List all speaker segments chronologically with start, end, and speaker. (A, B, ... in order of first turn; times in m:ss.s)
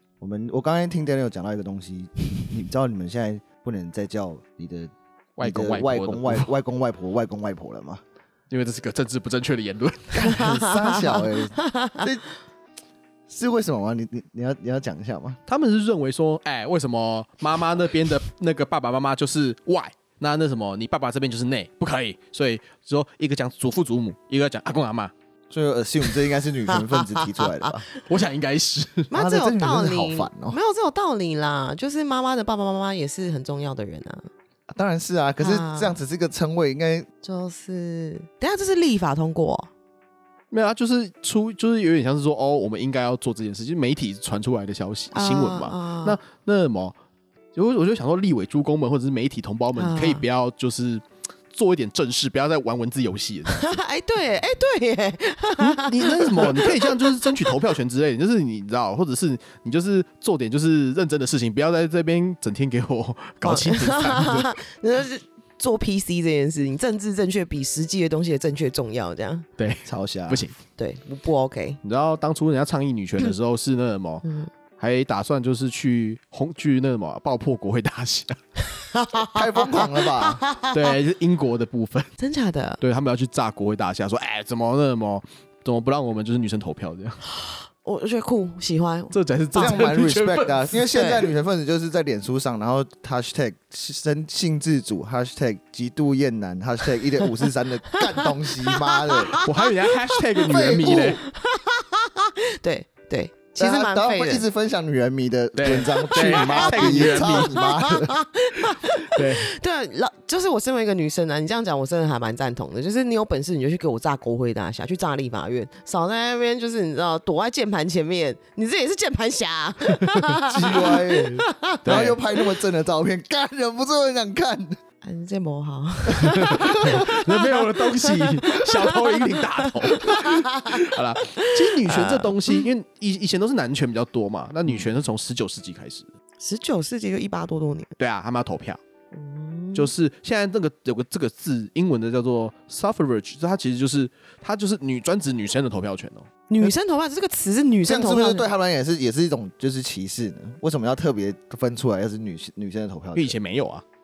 0:00.2-0:08.0 A
0:05.4-0:06.5 B
0:08.5-0:10.5 B
0:10.1-0:12.2 A
0:10.2-0:12.0 C
0:13.3-0:15.4 A
0:15.5-0:25.1 B
0:25.5-0:27.9 A
0:26.7-0:27.7 C
0:28.1-0:29.1 B
0:29.1-0:34.3 C
0:29.1-0:30.6 A
0:34.7-0:37.1 A
0:35.4-0:36.0 C
0:37.2-0:39.7 C
0:40.5-0:47.0 B
0:45.1-0:46.2 C
0:47.5-0:53.7 B
0:49.8-0:50.2 C
0:53.5-0:57.6 C
0:55.6-1:04.5 B
1:03.4-1:09.5 C
1:09.6-1:10.6 B
1:09.8-1:10.4 A
1:10.8-1:11.8 C
1:11.8-1:14.2 B
1:14.2-1:14.5 C
1:14.8-1:18.4 B
1:18.8-1:21.0 C
1:19.3-1:20.4 A
1:20.7-1:22.1 B
1:22.2-1:22.8 C
1:22.8-1:27.2 B
1:27.4-1:30.0 C
1:29.1-1:30.8 B
1:29.6-1:39.4 A
1:30.9-1:31.3 C
1:37.9-1:40.2 C
1:39.4-1:41.2 B
1:40.4-1:41.2 A
1:41.2-1:44.4 C
1:43.6-1:48.2 A
1:45.6-1:47.6 B
1:45.9-2:01.8 C
1:49.1-1:49.5 B
2:00.5-2:04.8 A
2:01.8-2:02.2 B
2:05.0-2:12.6 C
2:06.3-2:16.1 B
2:16.4-2:17.9 C
2:18.0-2:18.8 B
2:19.1-2:19.9 C
2:19.7-2:26.3 B
2:26.5-2:28.5 C
2:27.8-2:33.4 A
2:33.2-2:33.8 B